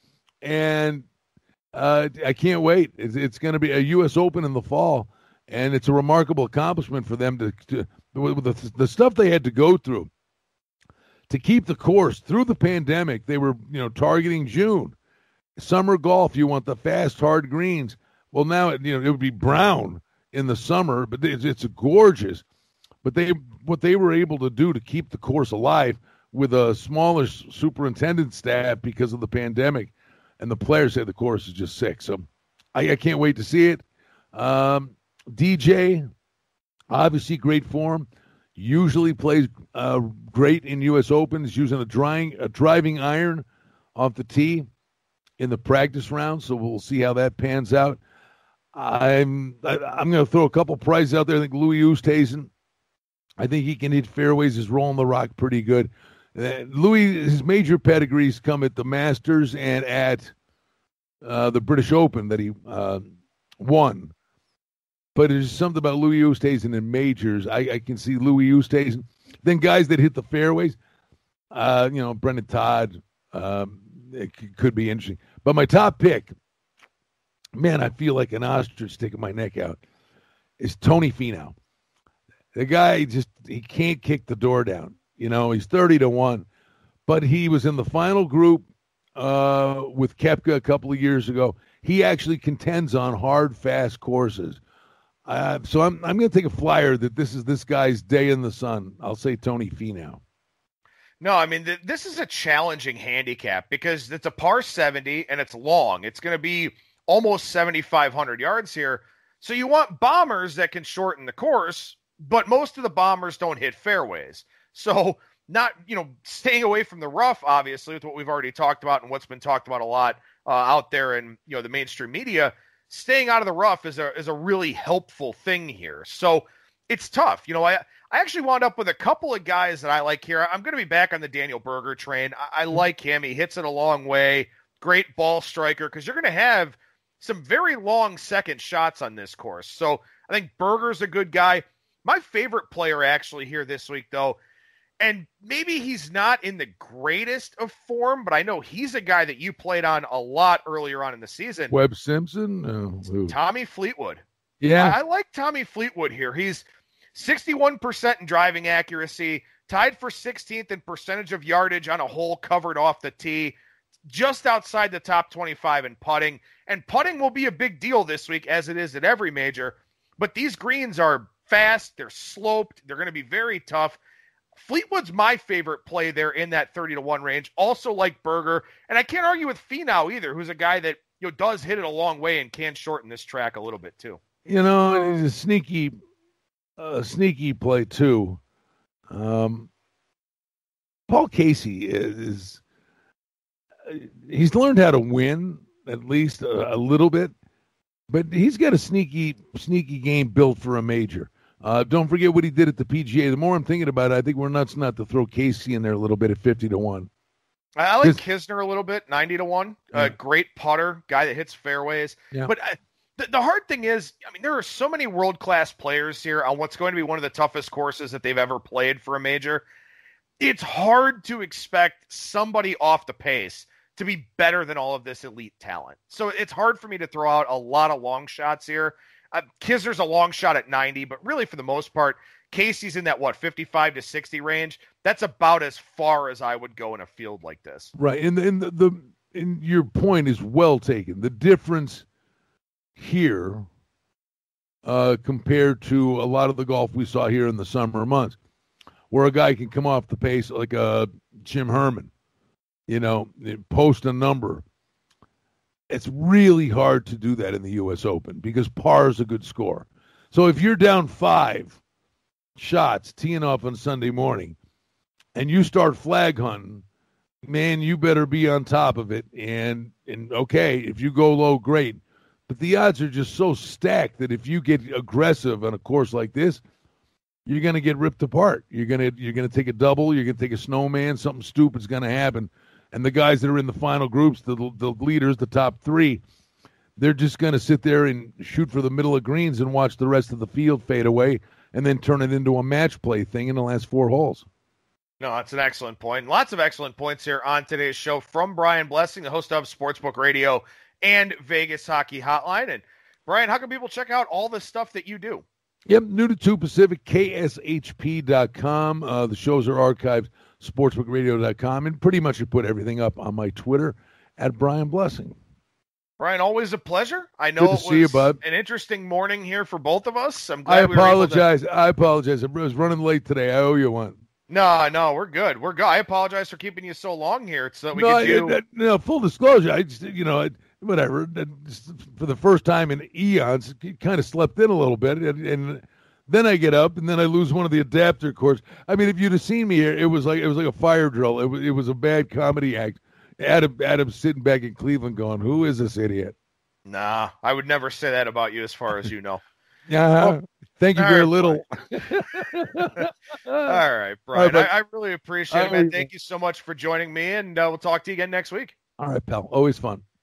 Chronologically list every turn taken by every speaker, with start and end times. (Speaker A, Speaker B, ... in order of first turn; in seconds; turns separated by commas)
Speaker A: 0.4-1.1, Speaker A: 1.7-10.1, Speaker A: 11.3-14.9, Speaker A: 15.6-22.4, Speaker A: 23.0-33.8, Speaker A: 34.3-36.0, Speaker A: 36.9-43.4, Speaker A: 44.0-44.7, Speaker A: 45.4-48.0, Speaker A: 48.7-52.5, Speaker A: 53.4-60.3, Speaker A: 61.2-63.1, Speaker A: 63.6-64.1, Speaker A: 65.1-70.8, Speaker A: 71.5-76.3, Speaker A: 77.5-79.8, Speaker A: 80.6-81.5, Speaker A: 82.5-86.5, Speaker A: 87.1-94.6, Speaker A: 95.3-100.2, Speaker B: 101.2-144.4, Speaker B: 145.0-151.7, Speaker A: 151.7-153.3, Speaker B: 153.3-154.2, Speaker A: 154.6-154.9, Speaker B: 154.8-163.6, Speaker B: 164.1-174.0, Speaker B: 174.6-184.2, Speaker A: 184.4-185.9, Speaker A: 186.8-188.4, Speaker A: 189.1-189.7, Speaker A: 191.1-192.6, Speaker A: 193.8-197.3, Speaker A: 198.1-207.1, Speaker B: 207.8-219.7, Speaker B: 220.4-237.9, Speaker A: 237.9-242.1, Speaker A: 243.0-243.7, Speaker A: 244.8-248.4, Speaker A: 249.1-252.1, Speaker A: 252.9-254.6, Speaker A: 255.9-261.8, Speaker A: 262.6-264.6, Speaker A: 265.3-266.8, Speaker A: 267.4-276.6, Speaker A: 277.4-286.2, Speaker A: 287.0-294.4, Speaker B: 295.2-305.4, Speaker A: 305.9-315.4, Speaker B: 316.2-321.4, Speaker A: 317.6-318.4, Speaker A: 320.7-324.2, Speaker B: 324.5-328.6, Speaker A: 327.9-346.3, Speaker B: 346.9-349.4, Speaker A: 349.9-353.8, Speaker B: 350.9-351.6, Speaker B: 352.3-353.1, Speaker B: 353.6-358.7, Speaker A: 354.3-354.7, Speaker A: 355.5-356.1, Speaker A: 359.0-360.0